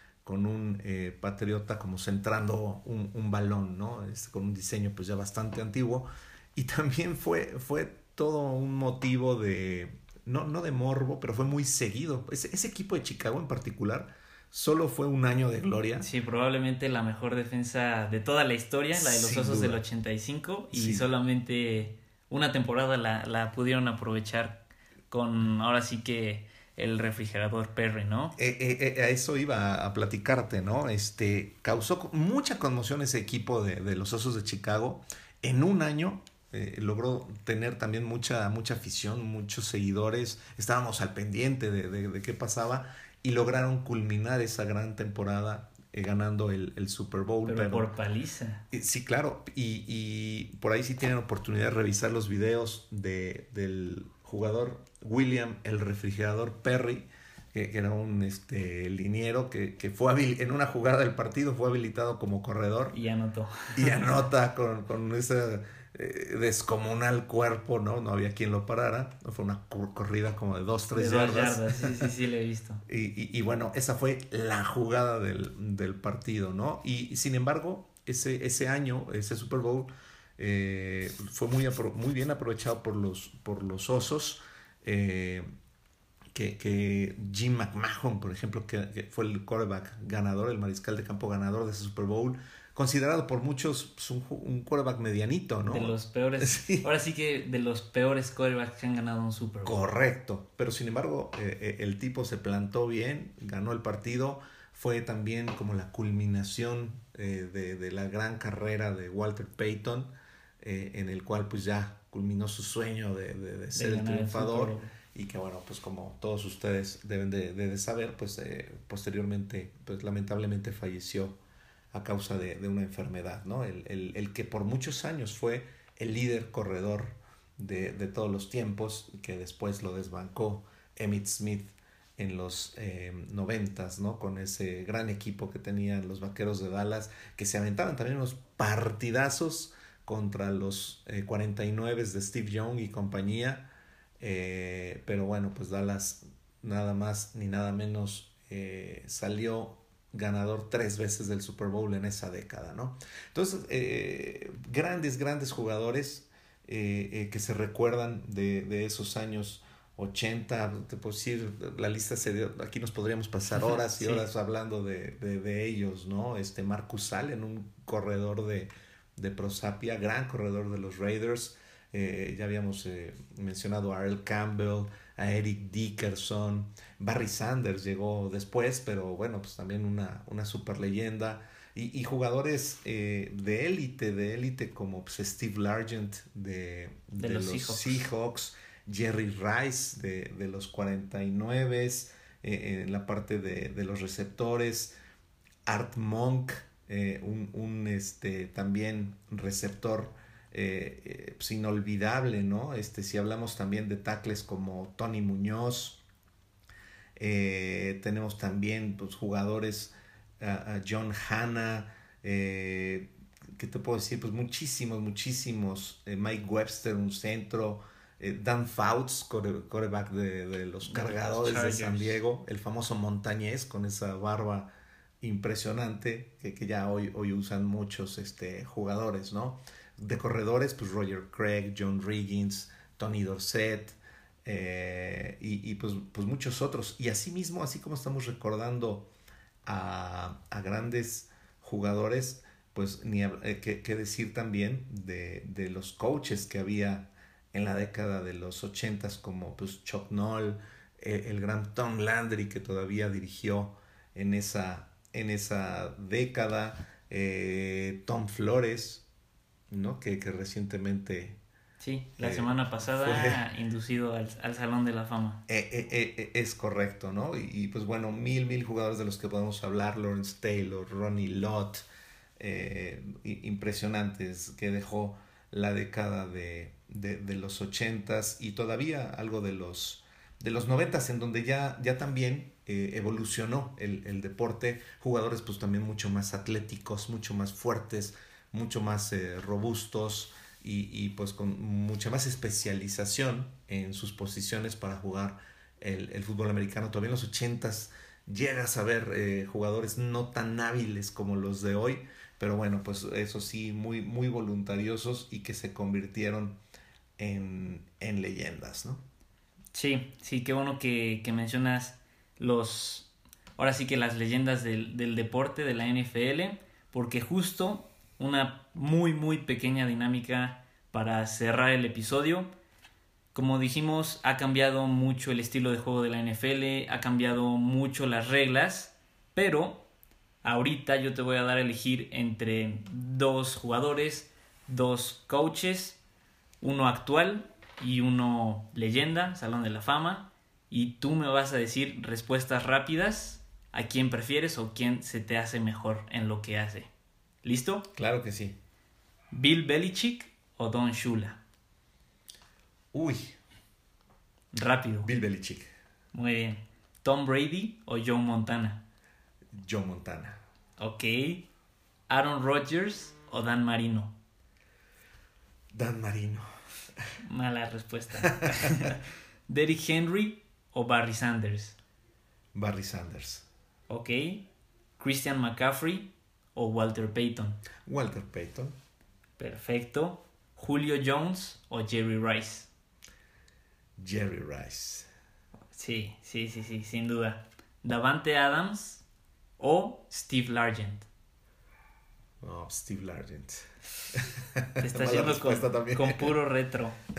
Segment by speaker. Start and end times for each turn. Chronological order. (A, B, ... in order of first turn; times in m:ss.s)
0:00.2-0:16.1 A
0:16.0-0:28.3 B
0:18.9-0:19.8 A
0:20.7-0:21.0 A
0:28.4-0:47.9 A
0:47.4-0:48.6 B
0:48.7-1:03.0 A
1:02.9-1:04.2 B
1:03.7-1:12.1 A
1:10.9-1:12.8 B
1:12.9-1:25.4 A
1:26.3-1:36.9 A
1:35.7-1:39.9 B
1:39.6-2:01.4 A
1:53.7-1:54.9 B
2:01.9-2:23.6 A
2:24.2-3:14.9 A
2:43.7-2:44.2 B
3:07.2-3:08.0 B
3:15.6-3:26.0 A
3:27.2-3:44.7 A
3:40.8-3:42.2 B
3:45.2-3:59.1 A
3:59.6-4:19.0 A
4:19.7-4:21.4 A
4:21.8-4:25.4 B
4:22.2-4:23.4 A
4:25.5-4:31.8 A
4:32.4-5:06.6 A
5:07.2-5:09.0 A
5:09.7-5:22.5 B
5:23.3-5:29.8 B
5:30.4-5:36.0 B
5:36.6-5:46.9 B
5:47.4-5:47.8 B
5:47.9-5:48.6 A
5:49.3-5:51.4 B
5:52.9-5:53.4 A
5:54.5-5:55.1 B
5:55.0-5:55.7 A
5:56.1-5:58.8 B
5:59.5-6:00.4 A
6:00.8-6:01.4 B
6:02.1-6:04.1 B
6:05.7-6:06.5 A
6:07.2-6:11.8 B
6:12.5-6:13.4 A
6:13.9-6:14.4 B
6:15.0-6:17.6 B
6:17.8-6:18.7 A
6:19.4-6:22.7 B
6:24.0-6:25.1 A
6:25.7-6:29.0 B
6:29.6-6:31.1 B
6:32.4-6:36.4 A
6:34.8-6:37.0 B